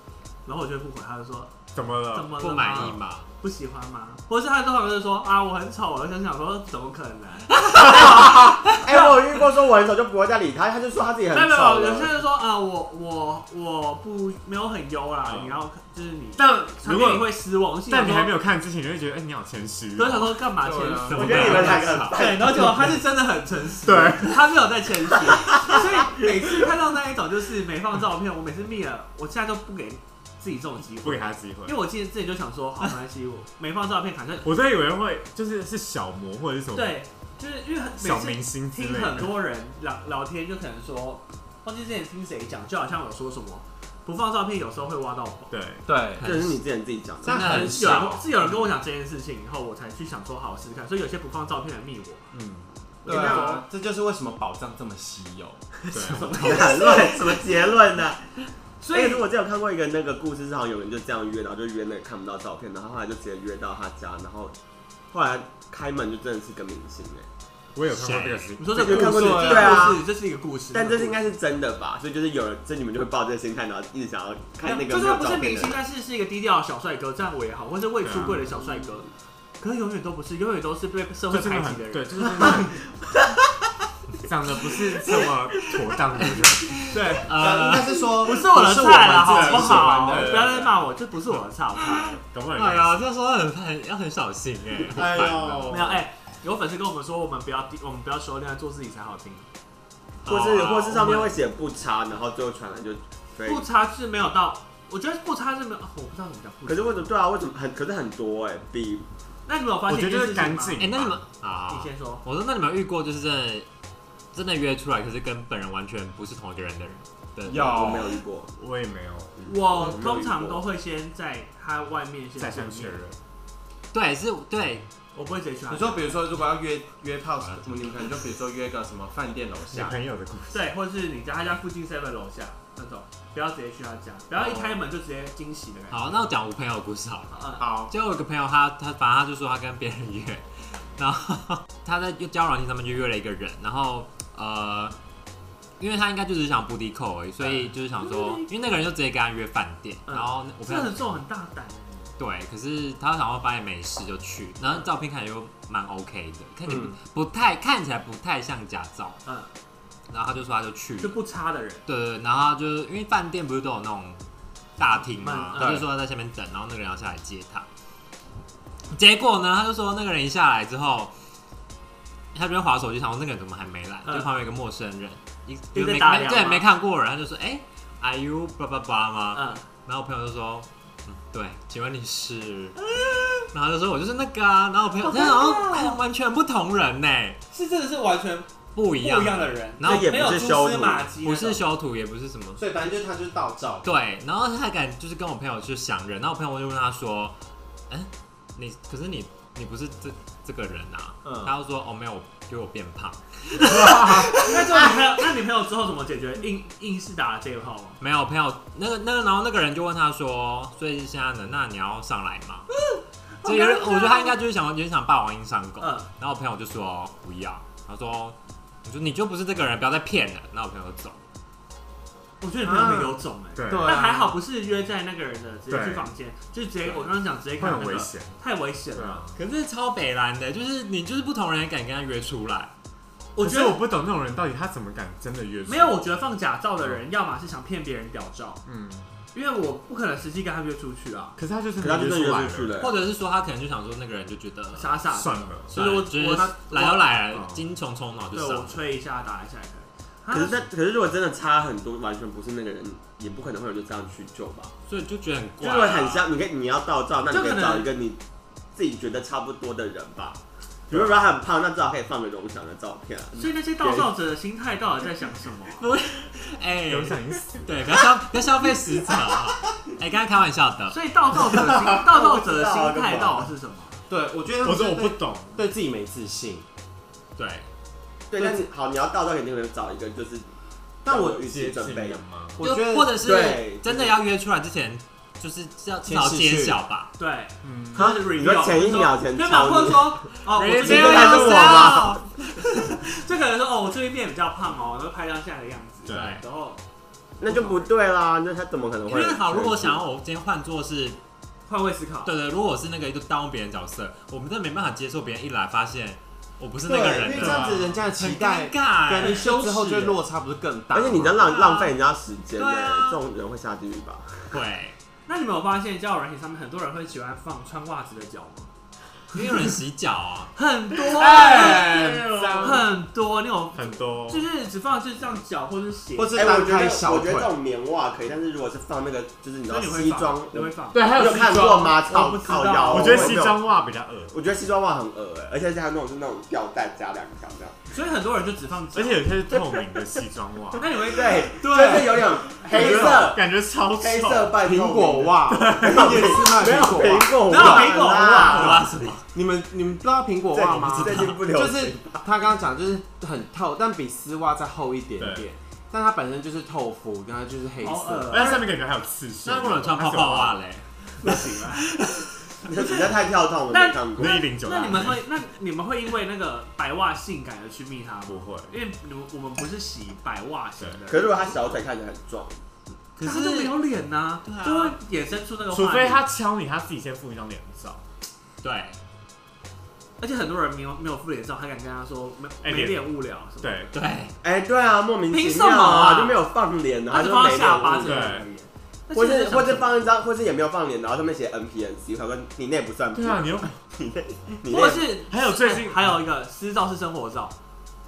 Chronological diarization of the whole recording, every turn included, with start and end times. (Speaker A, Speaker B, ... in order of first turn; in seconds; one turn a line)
Speaker A: 0.5-1.5
Speaker B: 1.7-3.0
Speaker A: 2.1-9.2
Speaker C: 2.4-3.3
Speaker D: 7.7-12.1
Speaker A: 11.3-18.3
Speaker B: 15.2-15.6
Speaker B: 16.4-20.4
Speaker A: 19.9-34.5
Speaker E: 20.6-21.6
Speaker C: 21.1-22.1
Speaker D: 21.1-22.6
Speaker B: 21.2-21.9
Speaker B: 22.6-22.9
Speaker B: 23.8-24.6
Speaker B: 30.9-31.8
Speaker B: 34.4-37.0
Speaker A: 36.7-45.5
Speaker B: 38.0-39.4
Speaker B: 45.5-45.9
Speaker E: 45.9-46.4
Speaker C: 46.2-46.5
Speaker D: 46.2-47.6
Speaker E: 47.2-48.3
Speaker C: 47.3-48.2
Speaker A: 47.4-52.3
Speaker B: 52.3-52.7
Speaker A: 53.0-53.6
Speaker D: 53.0-53.5
Speaker E: 53.0-56.8
Speaker B: 55.9-56.4
Speaker A: 56.0-57.4
Speaker D: 56.4-58.3
Speaker A: 58.8-59.2
Speaker D: 58.9-64.5
Speaker D: 65.1-67.3
Speaker B: 67.7-69.5
Speaker C: 67.9-68.5
Speaker A: 68.6-71.2
Speaker D: 68.8-70.0
Speaker E: 68.9-70.0
Speaker D: 70.7-75.8
Speaker A: 74.6-79.1
Speaker B: 78.0-78.5
Speaker A: 79.6-82.7
Speaker B: 81.3-82.8
Speaker B: 84.2-86.8
Speaker C: 86.7-88.1
Speaker A: 86.9-87.3
Speaker E: 87.3-90.6
Speaker A: 88.2-92.2
Speaker B: 89.3-90.9
Speaker B: 92.2-93.1
Speaker C: 92.5-95.7
Speaker B: 94.9-96.0
Speaker A: 95.7-99.5
Speaker C: 100.2-101.3
Speaker D: 100.2-103.7
Speaker A: 103.4-107.1
Speaker D: 106.7-109.0
Speaker A: 109.5-110.8
Speaker B: 109.9-111.2
Speaker C: 110.8-113.7
Speaker A: 111.7-112.2
Speaker C: 114.3-117.8
Speaker E: 117.4-118.2
Speaker D: 117.6-118.5
Speaker B: 118.5-119.9
Speaker A: 119.5-123.0
Speaker D: 119.6-120.6
Speaker B: 122.4-123.2
Speaker C: 123.9-124.8
Speaker A: 125.1-126.1
Speaker E: 125.7-130.0
Speaker B: 129.7-130.7
Speaker A: 130.5-136.2
Speaker C: 135.9-144.9
Speaker A: 137.3-137.6
Speaker C: 145.8-151.0
Speaker A: 148.0-148.5
Speaker A: 150.1-152.1
Speaker C: 152.2-159.2
Speaker E: 156.7-156.9
Speaker C: 160.1-161.1
Speaker A: 161.0-161.8
Speaker C: 161.8-164.2
Speaker C: 164.8-167.7
Speaker A: 165.1-165.8
Speaker C: 168.9-171.1
Speaker C: 172.3-182.8
Speaker A: 174.0-174.3
Speaker A: 175.7-176.7
Speaker A: 179.3-179.7
Speaker A: 182.8-183.5
Speaker C: 183.4-187.4
Speaker A: 185.0-186.0
Speaker A: 187.5-191.6
Speaker C: 188.7-190.6
Speaker D: 189.8-191.1
Speaker C: 191.2-192.6
Speaker E: 192.6-193.9
Speaker C: 193.8-197.4
Speaker C: 197.9-204.5
Speaker E: 201.2-201.5
Speaker B: 203.7-204.3
Speaker A: 204.3-208.0
Speaker C: 208.0-212.7
Speaker A: 212.8-214.3
Speaker C: 213.4-221.2
Speaker A: 215.8-216.1
Speaker A: 222.4-229.2
Speaker E: 222.6-223.2
Speaker B: 223.6-224.1
Speaker E: 223.7-224.3
Speaker B: 225.7-226.1
Speaker B: 226.9-228.4
Speaker B: 228.9-229.4
Speaker C: 229.3-232.7
Speaker A: 233.3-233.8
Speaker B: 233.4-236.0
Speaker A: 235.7-238.6
Speaker B: 238.6-239.1
Speaker A: 239.3-241.4
Speaker B: 241.3-242.8
Speaker D: 241.8-242.9
Speaker C: 242.8-245.0
Speaker A: 244.7-247.0
Speaker B: 245.0-245.9
Speaker C: 245.7-248.8
Speaker B: 247.3-247.6
Speaker A: 248.3-250.6
Speaker D: 250.3-254.7
Speaker C: 254.9-256.3
Speaker D: 255.6-258.2
Speaker A: 257.3-257.9
Speaker D: 258.7-264.1
Speaker B: 260.9-261.2
Speaker A: 263.4-265.8
Speaker C: 265.8-271.0
Speaker B: 266.9-268.0
Speaker A: 270.9-274.0
Speaker B: 271.5-271.8
Speaker D: 271.9-273.5
Speaker E: 274.1-276.6
Speaker B: 274.6-275.6
Speaker C: 277.4-277.7
Speaker D: 278.3-280.5
Speaker D: 281.0-282.2
Speaker E: 281.1-281.3
Speaker B: 281.1-282.6
Speaker E: 282.5-283.2
Speaker C: 282.6-287.1
Speaker D: 283.2-284.1
Speaker E: 286.0-286.8
Speaker A: 287.2-296.8
Speaker B: 287.6-288.1
Speaker D: 287.9-290.2
Speaker C: 290.5-292.8
Speaker D: 290.8-292.2
Speaker B: 296.1-296.4
Speaker C: 296.1-296.4
Speaker D: 297.4-300.0
Speaker A: 297.5-297.9
Speaker C: 299.1-301.2
Speaker A: 301.7-302.3
Speaker C: 302.2-309.6
Speaker E: 306.9-311.5
Speaker B: 307.3-308.1
Speaker A: 309.2-310.1
Speaker D: 310.9-314.5
Speaker A: 311.4-311.9
Speaker C: 312.6-313.1
Speaker C: 314.5-314.9
Speaker A: 315.3-318.7
Speaker C: 319.3-320.5
Speaker A: 320.5-322.1
Speaker B: 321.1-322.9
Speaker E: 321.3-322.8
Speaker A: 322.6-326.5
Speaker B: 323.7-324.5
Speaker E: 326.1-327.5
Speaker D: 326.3-333.7
Speaker A: 329.7-331.2
Speaker B: 330.9-332.0
Speaker E: 331.3-331.9
Speaker A: 331.7-333.4
Speaker B: 332.9-334.3
Speaker D: 334.3-337.8
Speaker A: 337.9-339.4
Speaker B: 338.9-340.9
Speaker A: 340.7-343.3
Speaker D: 340.9-348.9
Speaker E: 341.7-343.1
Speaker B: 342.6-344.6
Speaker E: 344.6-348.0
Speaker B: 345.5-346.9
Speaker A: 347.4-348.9
Speaker C: 348.3-349.2
Speaker E: 349.3-358.6
Speaker D: 350.5-352.2
Speaker C: 350.8-351.4
Speaker B: 355.2-355.5
Speaker A: 357.8-358.7
Speaker B: 358.3-360.6
Speaker C: 359.4-362.3
Speaker A: 361.2-361.9
Speaker D: 362.6-364.4
Speaker A: 363.7-371.8
Speaker B: 364.2-365.2
Speaker B: 368.3-368.8
Speaker D: 371.1-372.6
Speaker C: 373.2-373.8
Speaker A: 373.2-376.2
Speaker C: 374.4-374.9
Speaker B: 375.7-378.0
Speaker C: 378.6-379.0
Speaker A: 380.2-383.8
Speaker B: 382.6-383.0
Speaker B: 383.6-383.9
Speaker C: 383.9-384.3
Speaker D: 384.4-388.3
Speaker A: 385.3-386.4
Speaker A: 387.1-389.9
Speaker B: 388.0-388.4
Speaker D: 389.1-395.1
Speaker B: 393.1-393.8
Speaker A: 394.6-397.5
Speaker B: 395.3-396.2